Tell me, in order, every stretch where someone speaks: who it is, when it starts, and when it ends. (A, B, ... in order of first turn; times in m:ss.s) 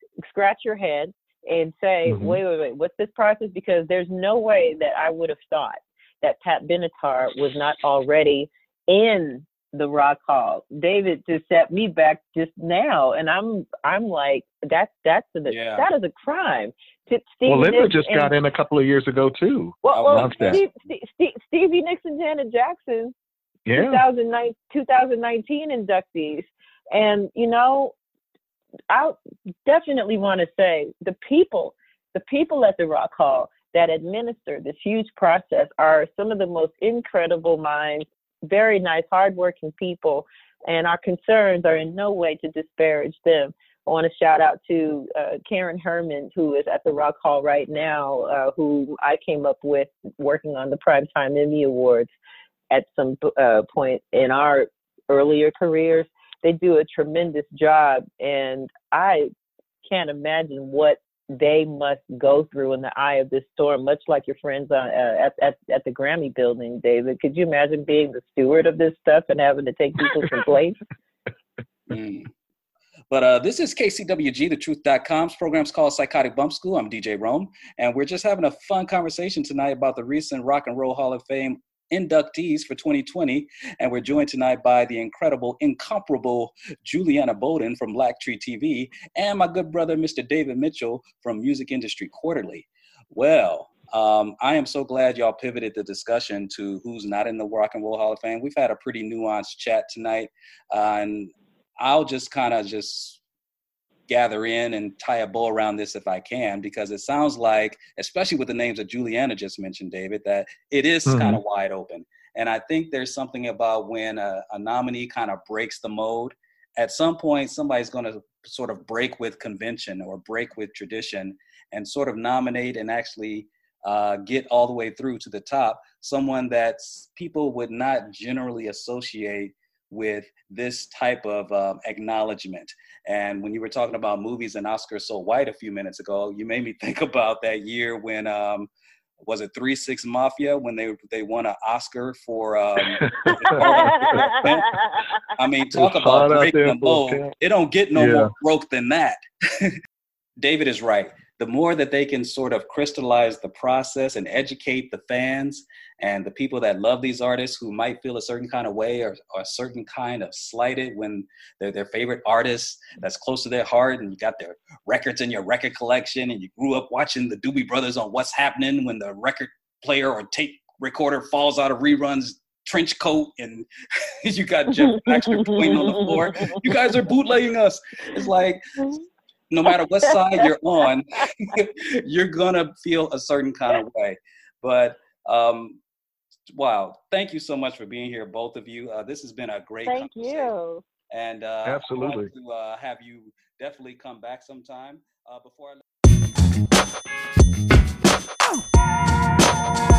0:00.3-0:18.3 A
0:02.1-0:02.4 B
0:15.5-0:15.9 C
0:17.5-0:20.6 B
0:19.8-0:23.1 A
0:19.9-0:20.6 C
0:23.7-0:24.0 B
0:23.8-0:27.9 A
0:28.9-0:52.1 A
0:52.7-0:59.3 A
0:59.8-1:10.8 A
1:11.9-1:12.3 C
1:13.1-1:43.2 C
1:44.1-2:18.7 C
1:51.1-1:51.4 B
2:19.2-2:24.8 C
2:22.8-2:24.3 B
2:24.0-2:24.8 A
2:25.3-2:29.7 C
2:25.7-2:27.3 B
2:27.9-2:28.3 B
2:30.4-2:53.7 C
2:54.2-2:58.6 C
2:55.2-2:56.6 A
2:59.5-3:05.8 C
3:00.1-3:00.4 A
3:06.5-3:10.5 C
3:09.9-3:10.8 A
3:11.1-3:15.8 C
3:11.6-3:12.3 B